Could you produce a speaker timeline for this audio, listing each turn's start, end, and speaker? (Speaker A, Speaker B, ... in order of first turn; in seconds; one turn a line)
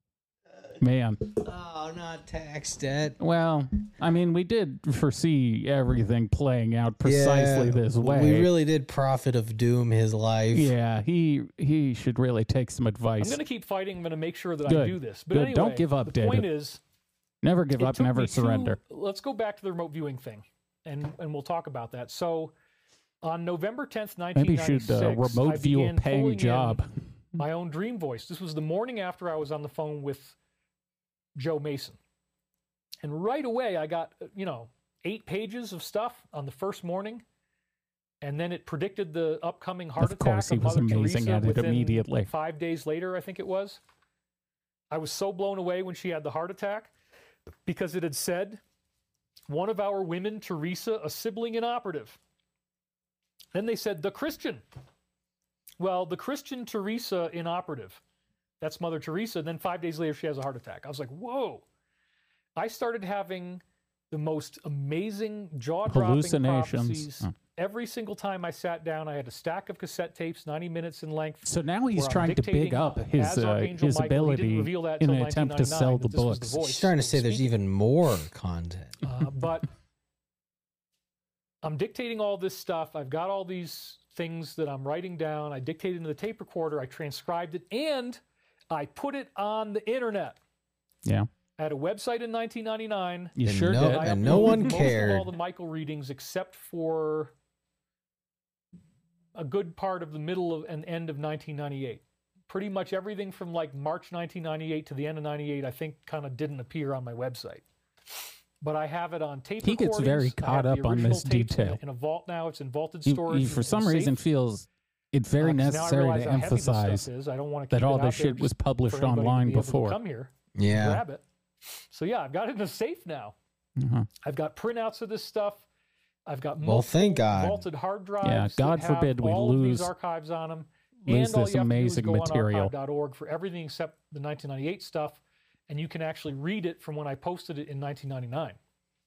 Speaker A: 0.8-1.2
Speaker B: 1.4-3.2
Speaker A: 3.2-8.5
Speaker B: 7.0-10.7
Speaker A: 10.5-13.4
Speaker C: 13.2-16.8
Speaker A: 14.7-16.5
Speaker A: 17.4-18.8
Speaker C: 17.8-22.5
Speaker C: 23.2-26.8
Speaker A: 24.4-26.9
Speaker C: 27.4-30.4
Speaker C: 31.4-32.0
Speaker C: 33.0-37.2
Speaker C: 38.2-43.8
Speaker A: 40.0-42.3
Speaker C: 44.9-46.9
Speaker C: 47.7-48.6
Speaker C: 49.5-52.2
Speaker C: 53.5-54.6
Speaker C: 55.8-58.0
Speaker C: 58.6-61.6
Speaker C: 62.6-77.5
Speaker A: 65.9-67.3
Speaker A: 71.4-76.6
Speaker B: 76.6-79.0
Speaker C: 79.0-79.7
Speaker C: 81.6-88.2
Speaker C: 88.7-90.4
Speaker C: 91.6-97.3
Speaker A: 93.4-94.9
Speaker B: 93.4-95.3
Speaker C: 99.3-107.6
Speaker C: 108.6-114.2
Speaker A: 109.6-111.8
Speaker A: 113.0-117.1
Speaker C: 115.4-123.3
Speaker A: 117.7-120.0
Speaker B: 120.6-121.0
Speaker A: 123.8-124.1
Speaker C: 124.2-125.7
Speaker C: 126.3-138.6
Speaker B: 126.6-127.6
Speaker A: 128.2-129.9
Speaker A: 131.1-132.7